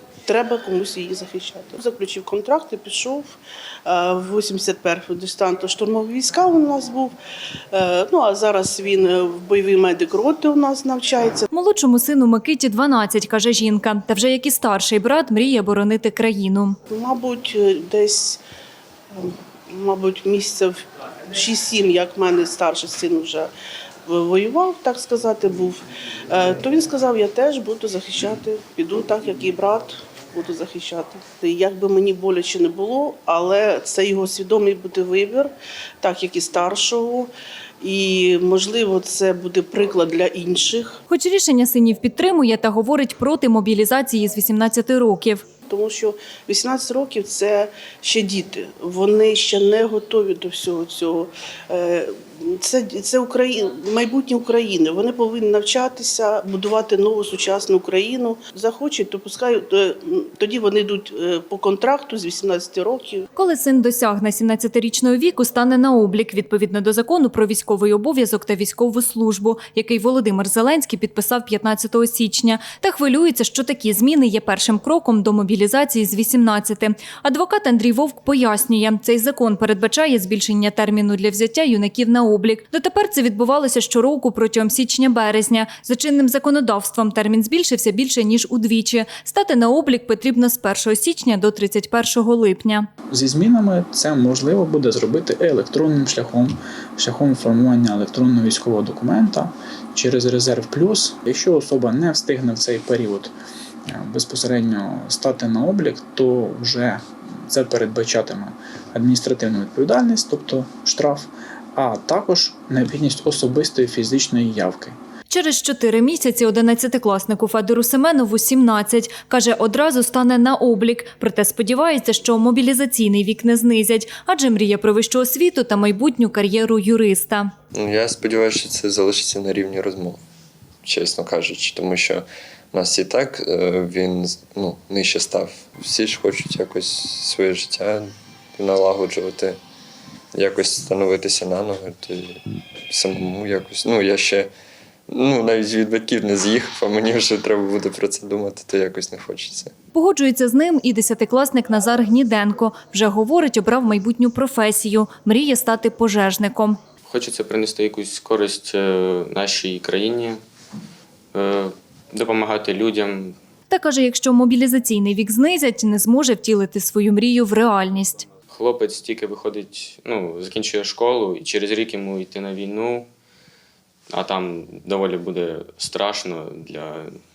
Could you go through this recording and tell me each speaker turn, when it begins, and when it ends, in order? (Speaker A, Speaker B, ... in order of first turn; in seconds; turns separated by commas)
Speaker A: 0.3-7.1, Speaker A: 7.7-11.5, Speaker B: 11.5-16.8, Speaker A: 16.9-18.4, Speaker A: 19.1-20.8, Speaker A: 21.3-23.5, Speaker A: 24.1-25.8, Speaker A: 26.3-37.3, Speaker A: 37.8-41.0, Speaker B: 41.1-45.4, Speaker A: 45.7-63.2, Speaker B: 63.4-92.9, Speaker C: 93.1-103.3, Speaker C: 103.9-115.0, Speaker B: 115.3-127.5, Speaker D: 127.7-130.2, Speaker D: 130.8-139.6, Speaker D: 140.3-142.4, Speaker D: 142.9-144.5, Speaker D: 145.1-149.7, Speaker B: 149.9-156.8, Speaker E: 157.1-160.4, Speaker E: 161.3-163.4, Speaker B: 163.7-168.2, Speaker E: 168.5-173.1, Speaker E: 174.1-177.1